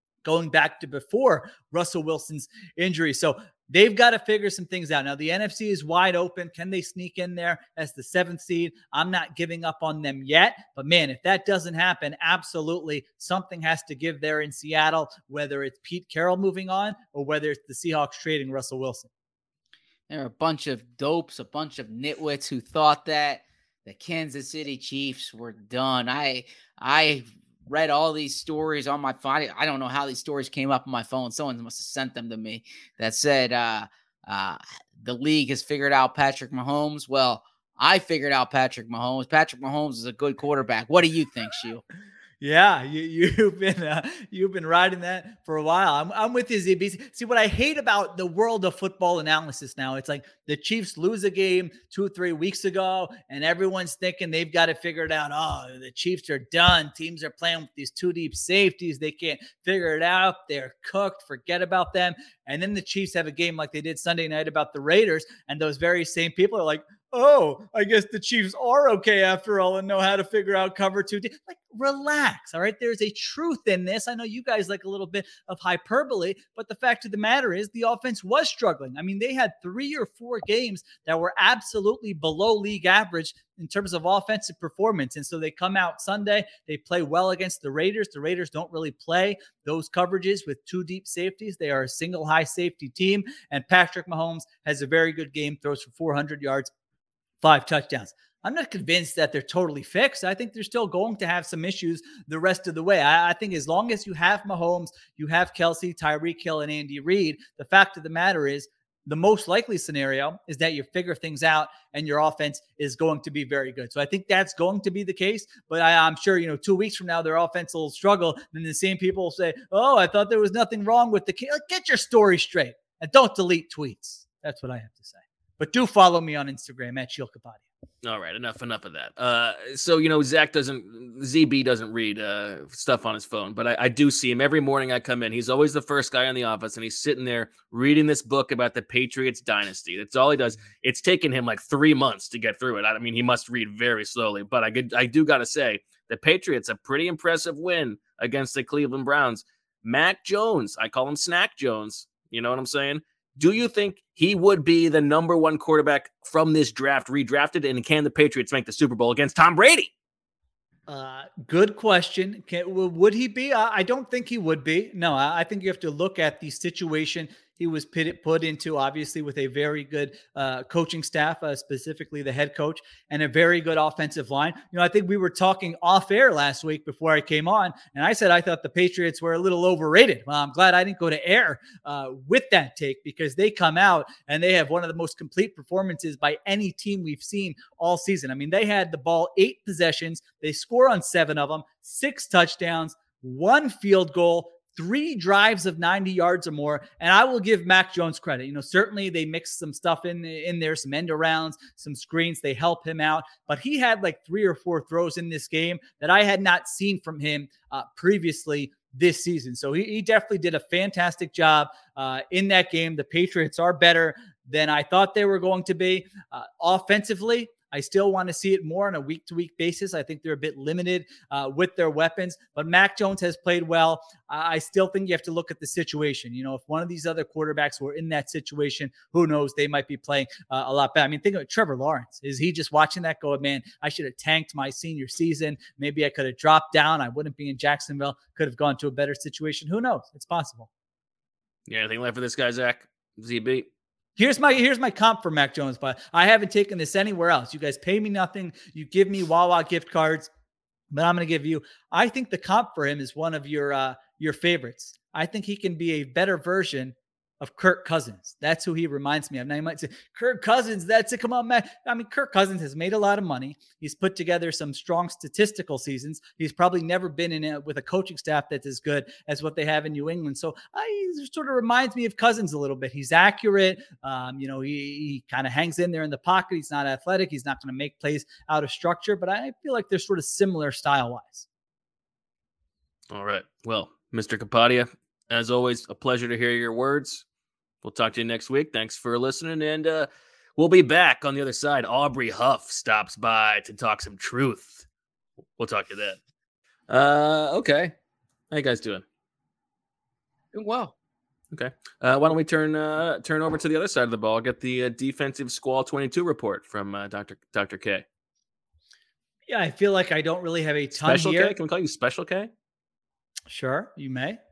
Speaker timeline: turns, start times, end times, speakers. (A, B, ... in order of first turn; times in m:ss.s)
0:00.2-0:19.1 A
0:20.1-0:41.8 B
0:42.4-1:36.7 A
1:37.4-2:07.6 A
2:08.0-2:39.9 C
2:40.9-4:00.7 A
4:01.7-4:03.7 C
4:04.2-4:10.3 A
4:10.9-4:41.4 A
4:43.1-4:47.2 C
4:47.8-4:54.9 C
4:55.6-4:56.2 C
4:56.9-4:57.9 C
4:58.5-4:59.0 C
5:00.5-5:00.9 B
5:01.5-5:08.0 C
5:09.5-5:11.6 A
5:10.9-5:12.5 C
5:13.5-5:14.4 A